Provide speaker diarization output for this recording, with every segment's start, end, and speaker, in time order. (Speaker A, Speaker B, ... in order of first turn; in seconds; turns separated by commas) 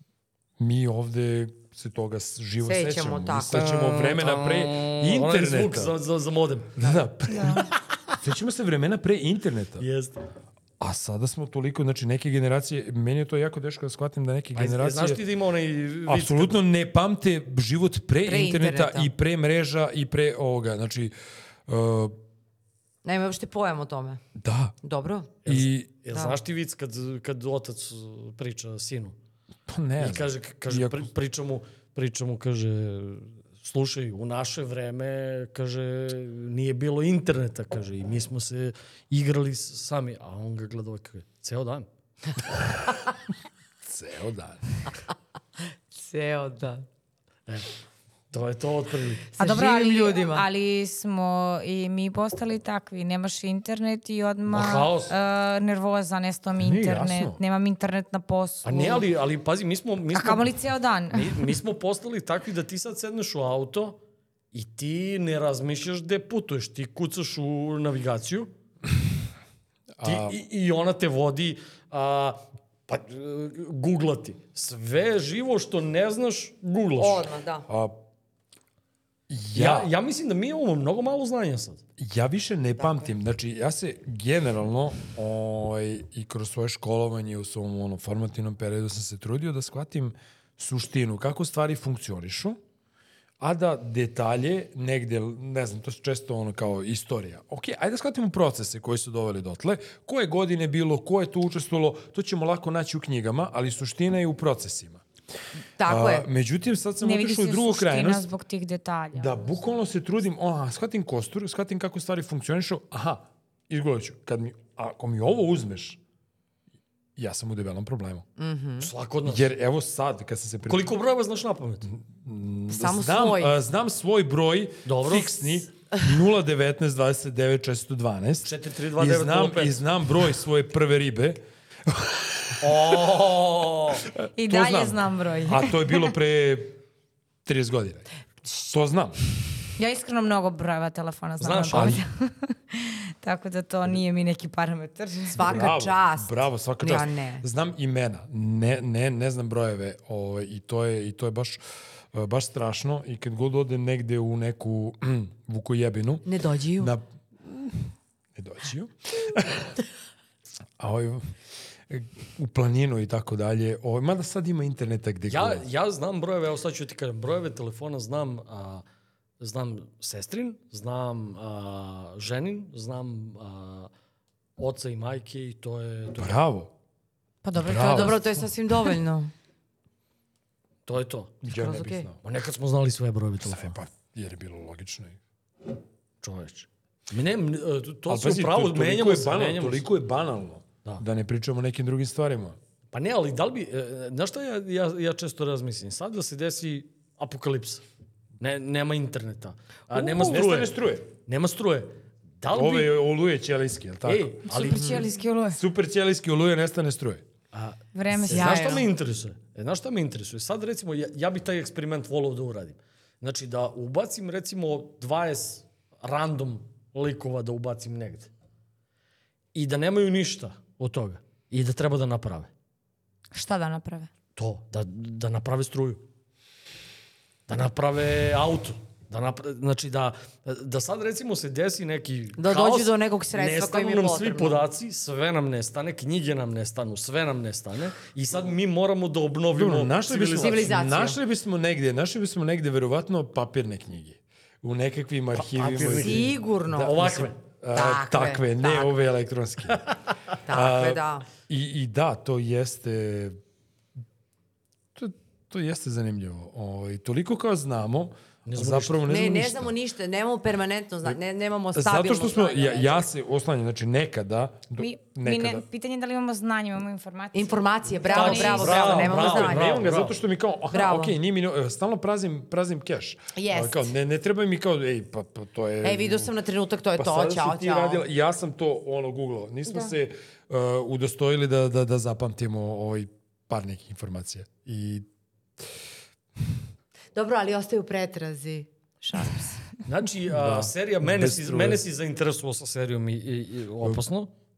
Speaker A: 0.6-5.9, Speaker B: 2.6-3.6, Speaker C: 3.5-6.7, Speaker A: 6.8-9.8, Speaker D: 7.3-7.7, Speaker C: 9.8-10.2, Speaker A: 10.8-15.2, Speaker C: 14.5-16.6, Speaker A: 16.1-21.1, Speaker B: 18.2-19.1, Speaker A: 21.7-22.2, Speaker B: 23.0-24.2, Speaker A: 24.4-24.7, Speaker B: 24.8-25.4, Speaker A: 25.4-25.9, Speaker C: 25.4-29.1, Speaker B: 26.1-26.4, Speaker A: 29.7-31.1, Speaker C: 30.0-41.9, Speaker A: 43.8-44.6, Speaker B: 45.9-46.8, Speaker C: 48.3-49.3, Speaker B: 49.4-50.5, Speaker D: 49.4-59.1, Speaker C: 54.5-55.1, Speaker A: 56.6-57.4, Speaker C: 58.6-60.5, Speaker D: 60.1-61.5, Speaker C: 61.1-64.0, Speaker C: 64.5-68.5, Speaker A: 70.0-70.4, Speaker C: 70.0-77.3, Speaker B: 77.0-77.7, Speaker A: 77.7-78.0, Speaker A: 79.3-79.9, Speaker C: 79.5-81.8, Speaker A: 82.0-92.6, Speaker B: 82.8-83.0, Speaker A: 93.4-105.0, Speaker B: 105.8-106.3, Speaker A: 105.8-108.2, Speaker D: 107.0-109.5, Speaker A: 109.1-116.0, Speaker A: 117.2-118.2, Speaker B: 118.4-118.9, Speaker C: 118.8-119.5, Speaker A: 119.2-120.9, Speaker C: 120.7-121.9, Speaker A: 121.9-133.0, Speaker B: 122.7-123.5, Speaker C: 124.8-125.7, Speaker C: 128.4-129.8, Speaker C: 132.6-134.1, Speaker A: 134.1-136.8, Speaker D: 134.4-136.0, Speaker A: 137.4-138.1, Speaker A: 138.6-139.6, Speaker D: 139.8-145.6, Speaker C: 141.4-142.0, Speaker A: 141.7-142.0, Speaker B: 145.3-147.4, Speaker A: 145.3-151.6, Speaker A: 152.1-159.8, Speaker B: 156.2-156.9, Speaker A: 160.8-161.3, Speaker A: 161.9-165.6, Speaker C: 165.3-168.8, Speaker C: 169.4-173.9, Speaker C: 174.6-176.4, Speaker A: 176.2-176.7, Speaker D: 177.4-178.3, Speaker A: 177.6-178.3, Speaker B: 177.7-179.3, Speaker C: 180.8-181.4, Speaker A: 181.4-182.2, Speaker B: 181.5-182.1, Speaker C: 182.2-183.8, Speaker A: 183.4-185.2, Speaker C: 186.2-189.8, Speaker A: 188.1-192.6, Speaker C: 192.9-197.8, Speaker C: 198.4-202.9, Speaker A: 199.9-201.1, Speaker A: 202.5-204.4, Speaker C: 204.0-205.2, Speaker D: 204.4-205.6, Speaker B: 204.6-205.1, Speaker A: 205.5-207.2, Speaker C: 207.5-218.3, Speaker D: 207.9-208.9, Speaker B: 208.3-208.9, Speaker C: 219.5-222.5, Speaker D: 223.3-224.1, Speaker C: 224.3-226.0, Speaker C: 227.5-240.8, Speaker B: 232.4-234.6, Speaker A: 239.5-249.8, Speaker B: 240.3-241.2, Speaker C: 245.3-247.4, Speaker B: 245.9-249.0, Speaker B: 250.4-251.2, Speaker A: 250.5-253.4, Speaker A: 254.9-259.7, Speaker C: 258.5-259.0, Speaker B: 259.1-263.1, Speaker A: 261.7-265.6, Speaker D: 264.8-269.1, Speaker B: 267.3-269.9, Speaker C: 268.1-270.2, Speaker A: 269.0-276.3, Speaker B: 270.7-271.1, Speaker B: 273.3-273.9, Speaker B: 275.8-278.0, Speaker A: 276.9-285.1, Speaker B: 287.1-289.6, Speaker C: 289.9-294.3, Speaker A: 290.3-291.8